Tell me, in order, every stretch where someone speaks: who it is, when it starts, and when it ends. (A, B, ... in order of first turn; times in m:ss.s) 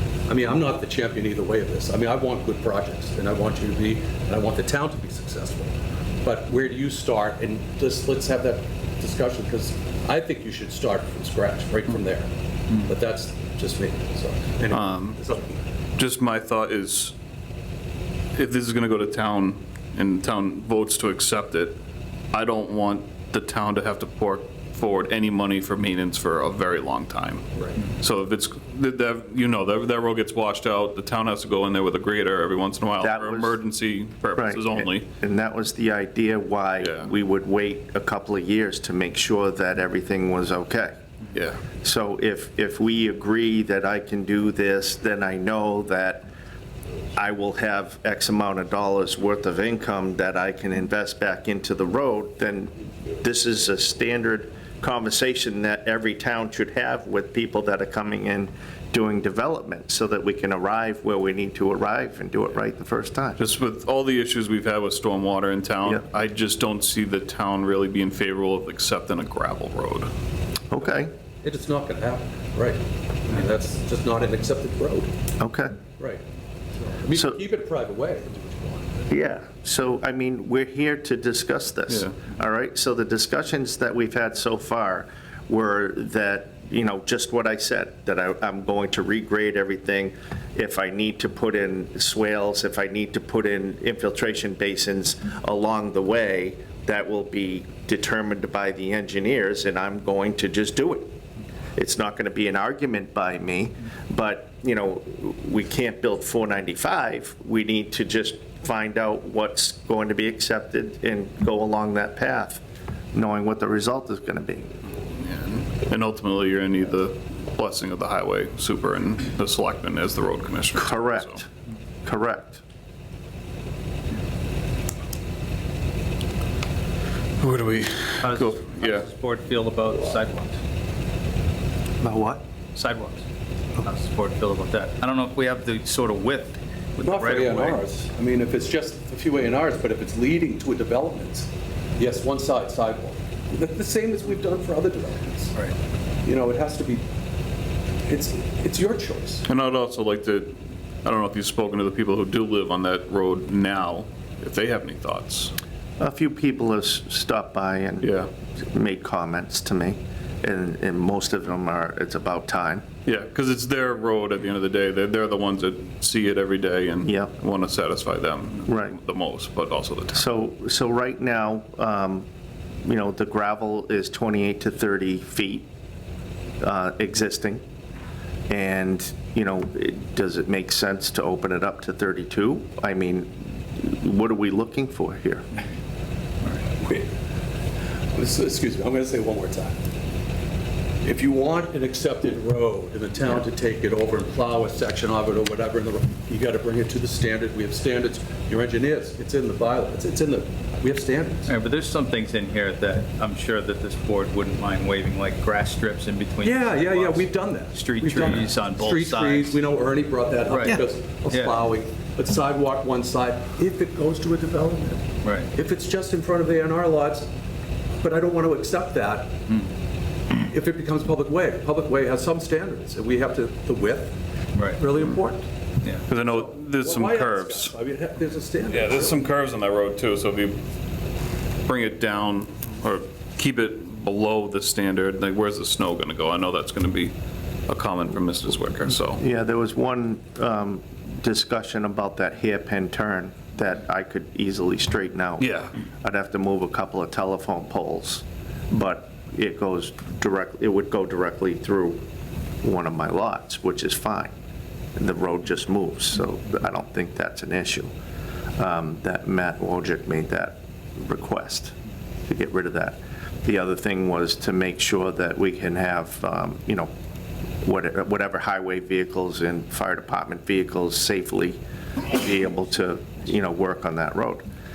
0:00.3-0:05.7 A
0:06.2-0:15.6 A
0:14.7-0:15.2 B
0:16.0-0:17.1 B
0:18.3-0:21.8 B
0:22.3-0:27.4 B
0:28.0-0:35.1 B
0:33.0-0:33.6 C
0:34.3-0:41.0 C
0:36.8-0:37.1 B
0:41.3-0:41.6 B
0:41.8-0:46.3 C
0:47.2-1:03.4 C
1:03.4-1:10.1 B
1:10.7-1:11.1 C
1:11.4-1:15.1 A
1:15.4-1:15.8 C
1:16.8-1:19.1 A
1:19.1-1:41.1 C
1:41.8-1:52.6 C
1:53.1-1:54.7 C
1:55.2-2:01.3 B
2:00.8-2:01.5 C
2:02.0-2:02.6 C
2:07.4-2:09.0 B
2:08.2-2:10.6 D
2:12.0-2:12.4 A
2:12.7-2:13.2 D
2:13.8-2:17.8 D
2:17.0-2:25.6 A
2:26.2-2:27.0 A
2:28.1-2:29.4 A
2:29.5-2:35.5 B
2:36.0-2:38.1 C
2:38.0-2:38.3 B
2:38.6-2:42.8 C
2:43.0-2:50.3 B
2:47.0-2:47.3 C
2:48.7-2:48.9 C
2:50.1-2:52.3 C
2:52.8-2:55.7 C
2:56.6-2:57.6 C
2:58.5-3:05.4 C
3:06.8-3:07.1 A
3:08.1-3:09.8 A
3:11.0-3:21.5 A
3:21.4-3:29.6 D
3:26.4-3:37.3 A
3:30.5-3:31.6 D
3:35.2-3:35.5 D
3:38.0-3:39.4 A
3:40.4-3:44.2 A
3:44.6-3:44.8 D
3:44.7-3:45.4 A
3:46.1-3:47.7 B
3:46.2-3:49.2 A
3:48.6-3:50.6 B
3:51.6-3:57.1 B
3:57.7-3:59.2 B
3:59.2-4:05.5 C
4:05.4-4:05.7 B
4:06.0-4:12.0 C
4:12.6-4:14.3 C
4:15.0-4:17.9 C
4:18.6-4:21.7 C
4:22.3-4:26.9 C
4:27.6-4:34.4 C